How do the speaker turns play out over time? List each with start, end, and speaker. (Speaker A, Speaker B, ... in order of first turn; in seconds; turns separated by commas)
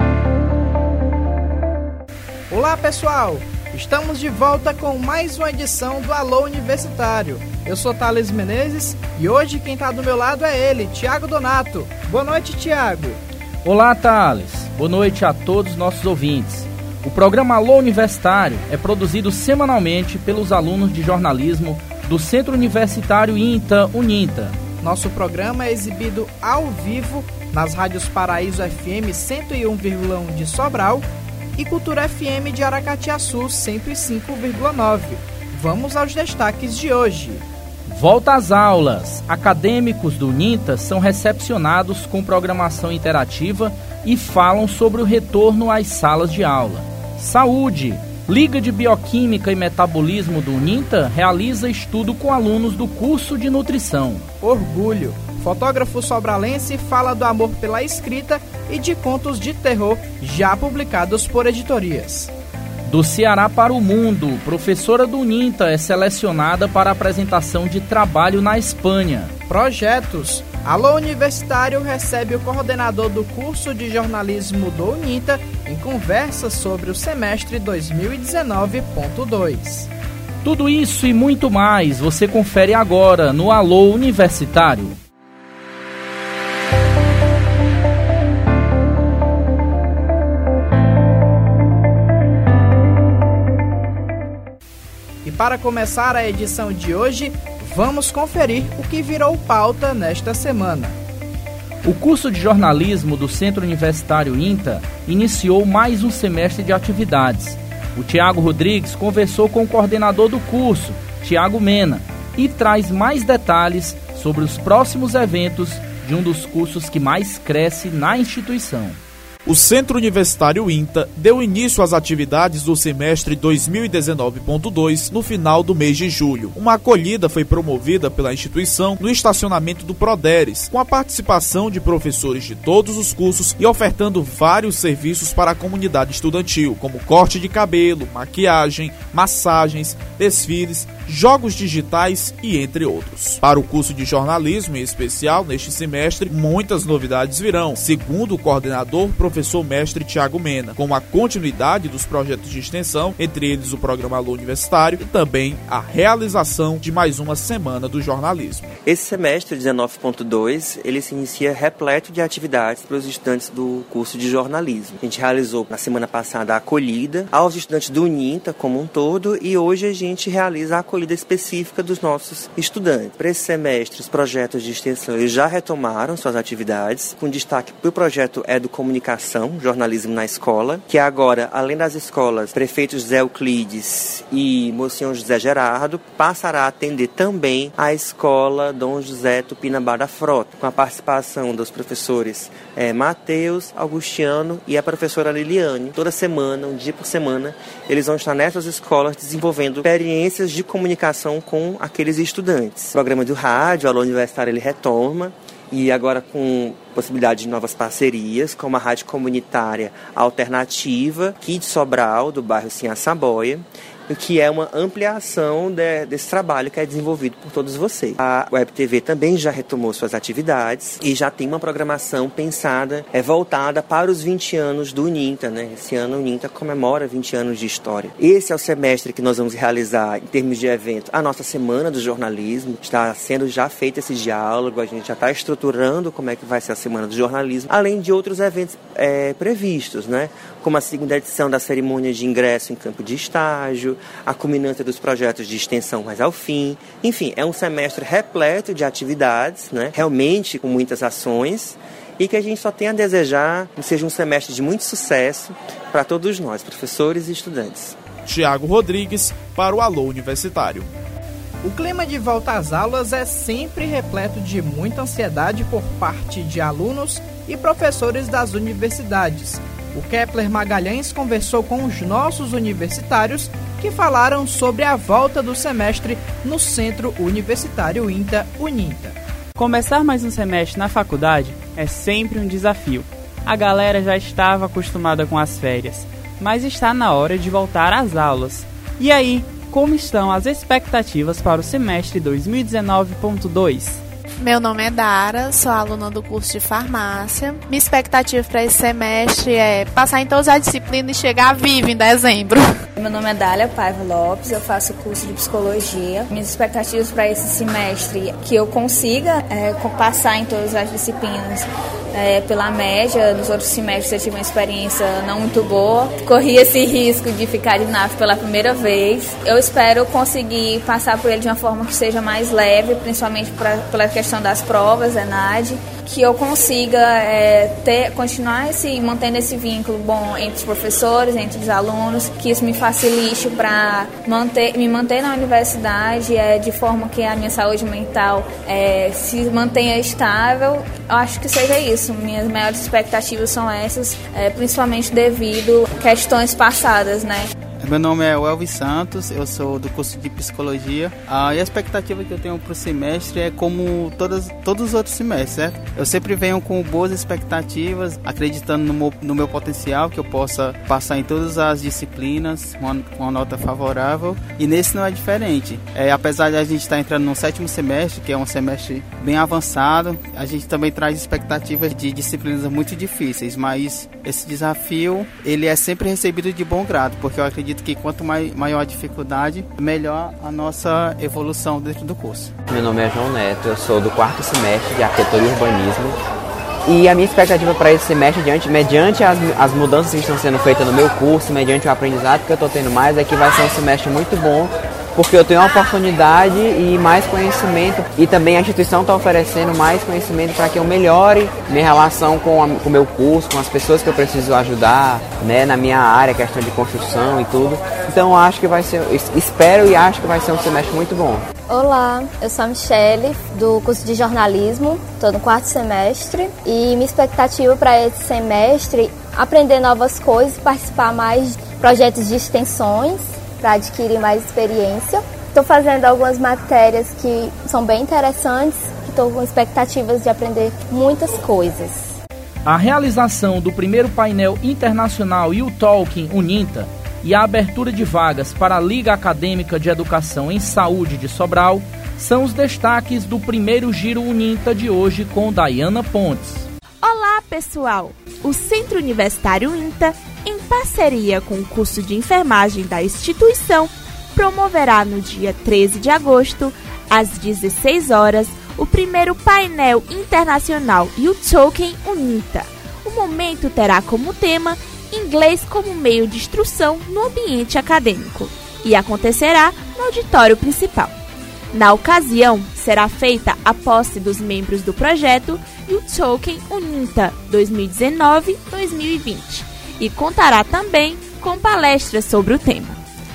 Speaker A: 2.5-13.2, Speaker B: 13.7-24.6, Speaker A: 24.8-37.4, Speaker B: 37.9-54.2, Speaker A: 54.4-62.3, Speaker B: 62.9-69.3, Speaker A: 69.5-79.9, Speaker B: 80.4-85.0, Speaker A: 95.2-101.0, Speaker B: 101.8-119.0, Speaker C: 119.5-158.7, Speaker D: 158.8-258.0, Speaker C: 258.2-260.9, Speaker A: 261.6-279.2, Speaker E: 279.6-294.0, Speaker F: 294.4-302.6, Speaker G: 303.0-347.5, Speaker H: 347.8-382.5, Speaker I: 382.7-386.2, Speaker I: 386.8-411.5, Speaker J: 411.7-432.2, Speaker B: 432.6-446.7, Speaker K: 447.0-471.1, Speaker K: 471.7-483.0